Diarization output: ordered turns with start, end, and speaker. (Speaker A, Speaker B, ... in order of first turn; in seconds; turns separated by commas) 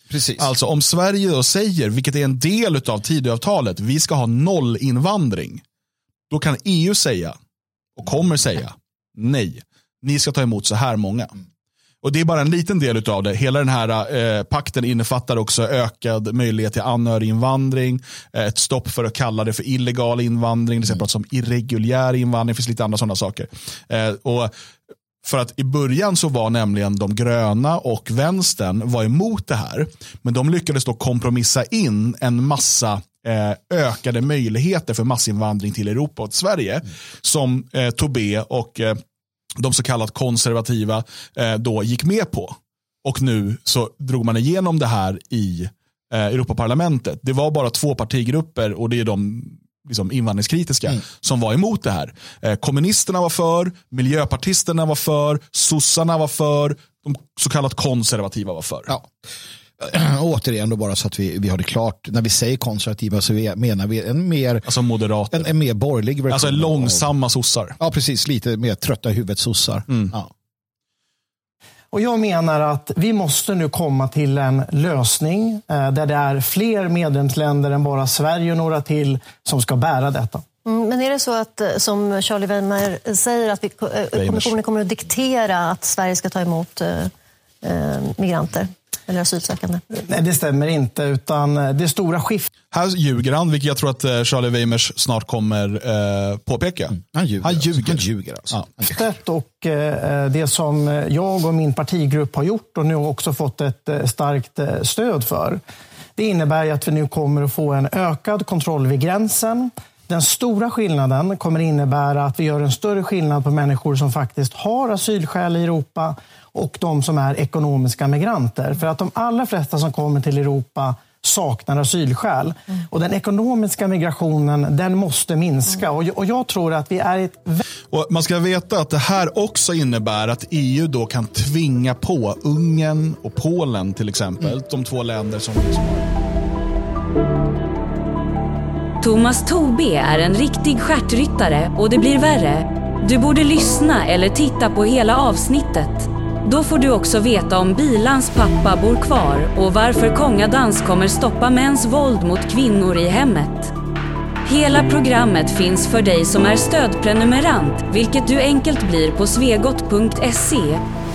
Speaker A: 0.1-0.5, Speaker B: 0.4-5.6, Speaker B: 6.3-7.4, Speaker B: 8.0-11.3, Speaker B: 12.0-24.5, Speaker B: 25.2-39.0, Speaker B: 39.6-58.9, Speaker A: 59.8-64.7, Speaker B: 64.6-65.5, Speaker A: 65.3-67.1, Speaker B: 66.3-67.8, Speaker A: 67.8-70.3, Speaker C: 71.9-80.4, Speaker D: 80.6-87.1, Speaker B: 84.1-84.5, Speaker D: 87.6-89.8, Speaker C: 89.9-92.5, Speaker B: 92.7-98.7, Speaker A: 97.0-99.0, Speaker C: 98.9-105.6, Speaker C: 106.2-127.6, Speaker B: 127.9-136.1, Speaker E: 139.0-153.7, Speaker E: 154.4-160.8